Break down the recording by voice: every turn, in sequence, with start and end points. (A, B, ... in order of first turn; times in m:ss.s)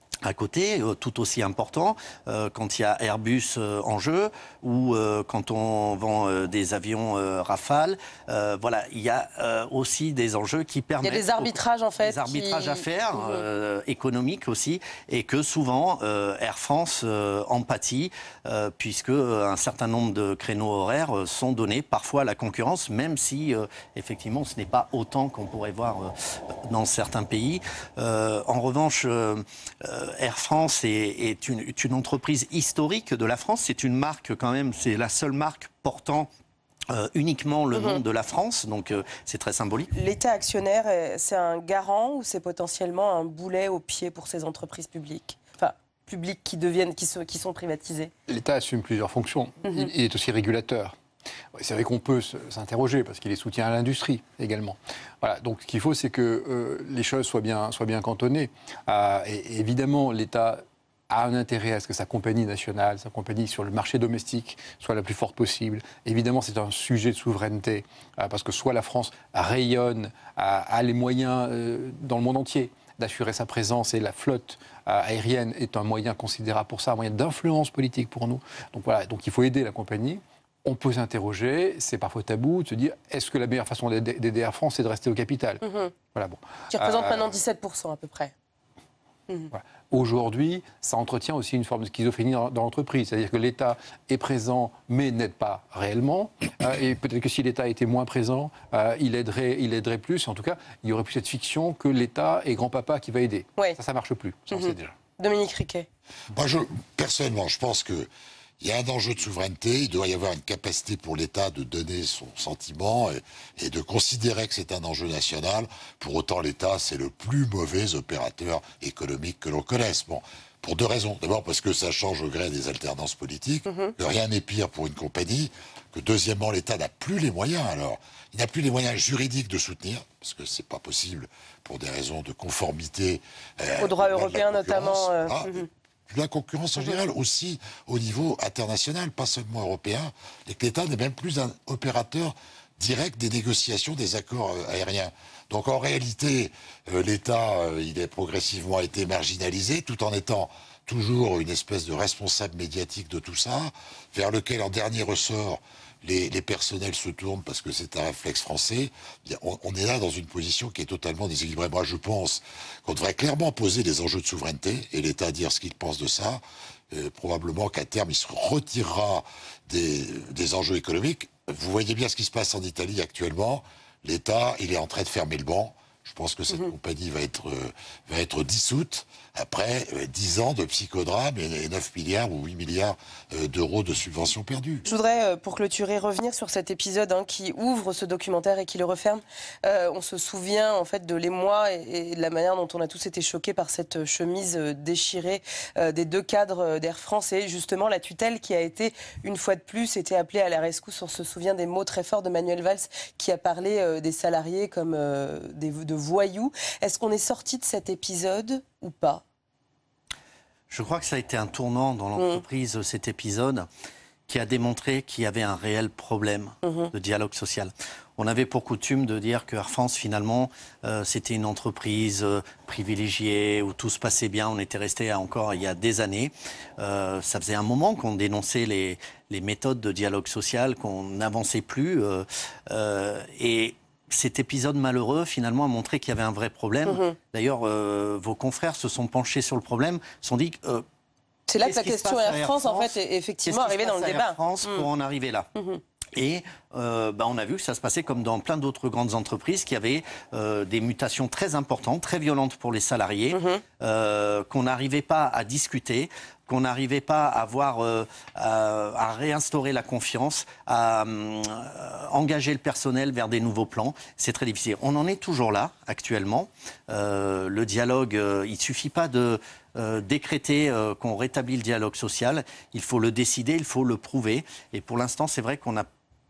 0:00.3-0:26.1 A
0:11.0-0:13.4 B
0:26.7-0:36.3 A
0:36.9-0:39.9 A
0:37.7-0:38.0 B
0:39.9-0:48.1 B
0:48.3-0:50.9 C
0:49.6-0:49.9 B
0:51.6-1:27.3 C
1:25.6-1:25.9 B
1:26.7-1:28.3 B
1:29.5-1:45.0 C
1:44.5-1:45.9 B
1:46.3-1:48.1 D
1:48.6-3:04.8 D
2:03.7-2:03.9 B
2:13.8-2:15.7 B
3:04.8-3:29.2 B
3:30.7-3:33.7 A
3:32.2-3:32.4 B
3:34.3-4:00.8 A
3:36.6-3:36.9 B
3:56.9-3:57.1 B
4:01.5-4:04.8 B
4:01.6-4:05.5 A
4:05.6-4:05.8 B
4:06.2-4:35.9 A
4:13.3-4:13.6 B